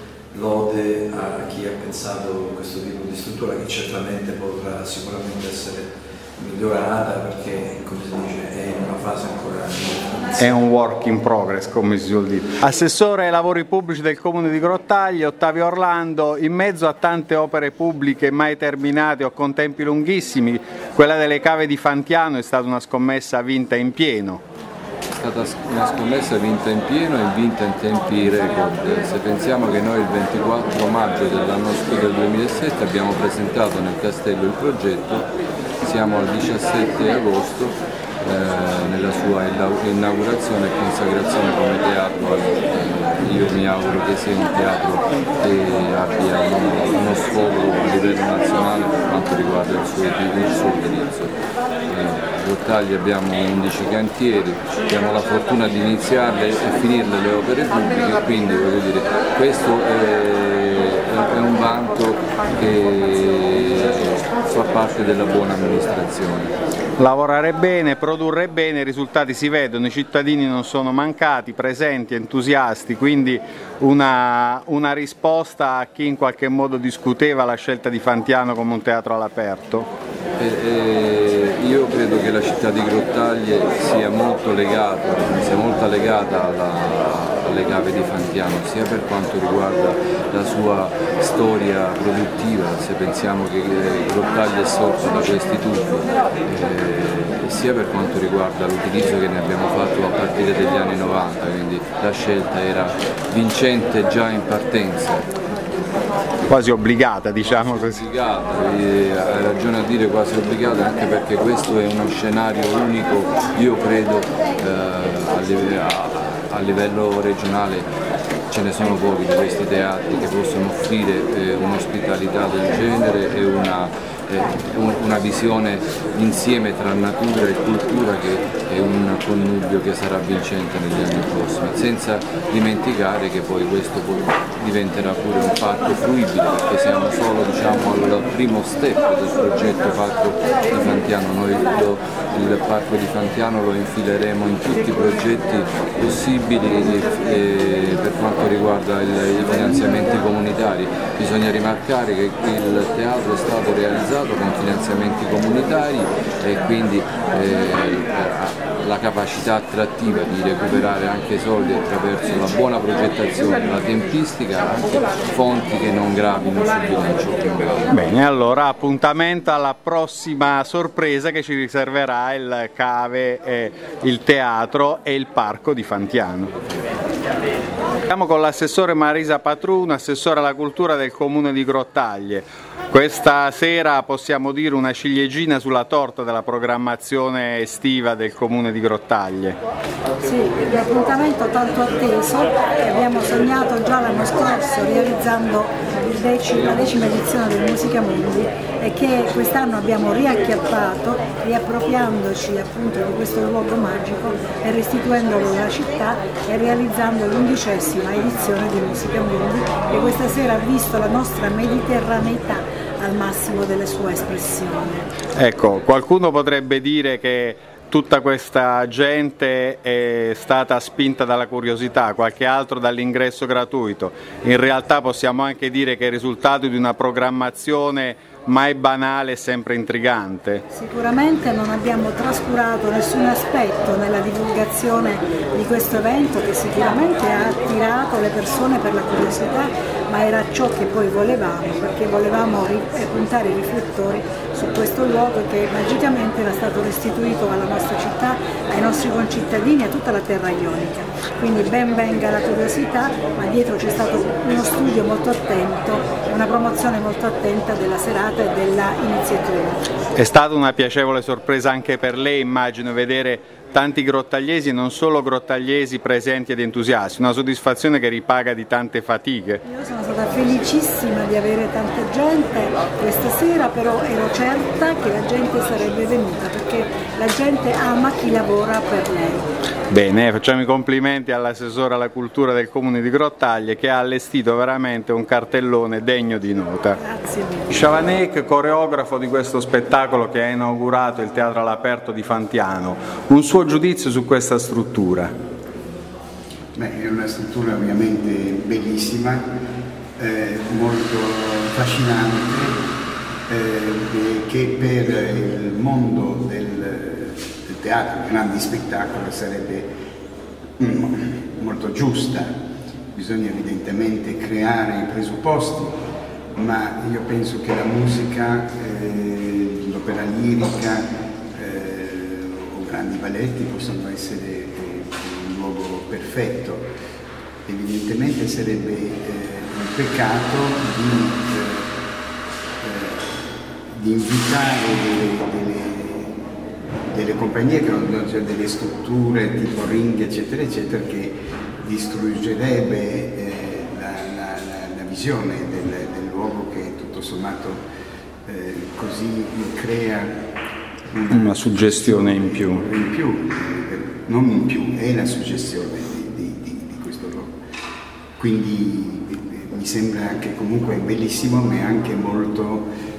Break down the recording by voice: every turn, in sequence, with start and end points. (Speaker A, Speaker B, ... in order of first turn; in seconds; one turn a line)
Speaker A: 0.3-10.3
Speaker B: 10.4-24.4
Speaker C: 25.1-35.3
Speaker C: 35.8-51.4
Speaker C: 51.9-66.6
Speaker B: 67.0-79.9
Speaker C: 80.4-105.2
Speaker B: 106.5-108.0
Speaker C: 107.4-117.9
Speaker C: 118.5-167.8
Speaker B: 167.9-176.5
Speaker B: 178.1-189.6
Speaker D: 190.2-215.1
Speaker B: 215.4-230.6
Speaker D: 230.7-259.8
Speaker B: 260.2-269.6
Speaker D: 269.6-279.5
Speaker B: 279.9-287.0
Speaker D: 287.0-287.8
Speaker B: 287.7-295.3
Speaker E: 296.8-299.5
Speaker E: 300.2-302.8
Speaker E: 303.5-309.9
Speaker E: 310.8-312.6
Speaker E: 313.1-316.0
Speaker E: 316.6-326.9
Speaker E: 327.7-331.9
Speaker E: 332.8-333.3
Speaker E: 333.9-336.3
Speaker E: 337.1-347.8
Speaker E: 348.4-350.4
Speaker E: 351.1-357.5
Speaker B: 351.3-352.8
Speaker E: 358.4-362.9